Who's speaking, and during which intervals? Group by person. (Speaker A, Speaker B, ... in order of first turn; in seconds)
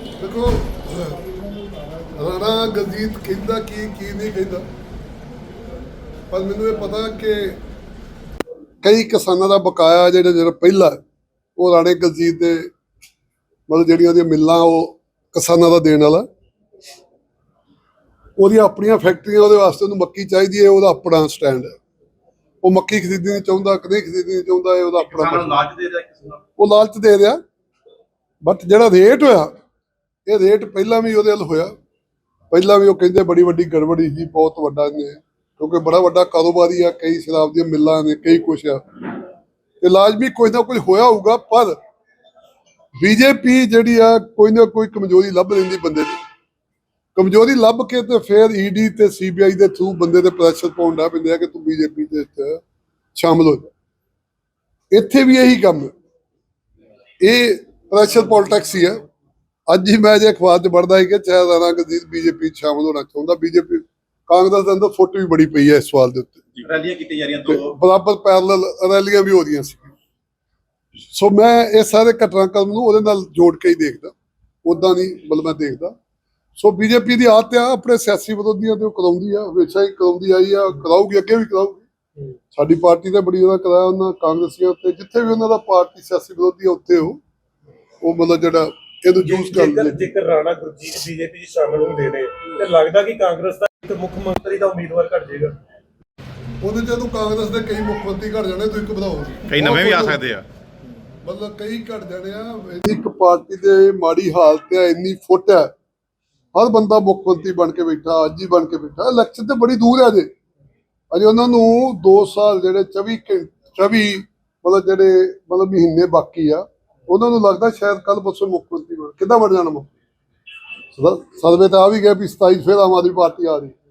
Speaker A: 0.2-1.2, 2.2-4.7, 6.3-7.6, 8.8-11.0, 11.6-12.7, 13.7-16.3, 18.4-21.8, 22.6-25.6, 26.6-27.4, 28.4-29.6, 30.3-31.7, 32.5-38.8, 39.8-41.8, 43.0-46.2, 47.1-52.6, 53.1-53.7, 54.9-55.9, 57.2-59.0, 59.7-66.4, 67.5-69.9, 71.1-74.1, 74.7-75.9, 76.6-81.9, 82.5-87.2, 88.0-90.0, 96.6-100.2, 101.2-105.7, 106.5-110.3, 111.1-119.9, 120.9-123.8
Speaker B: 25.0-26.4, 66.6-67.7, 99.5-100.4
Speaker C: 89.2-95.6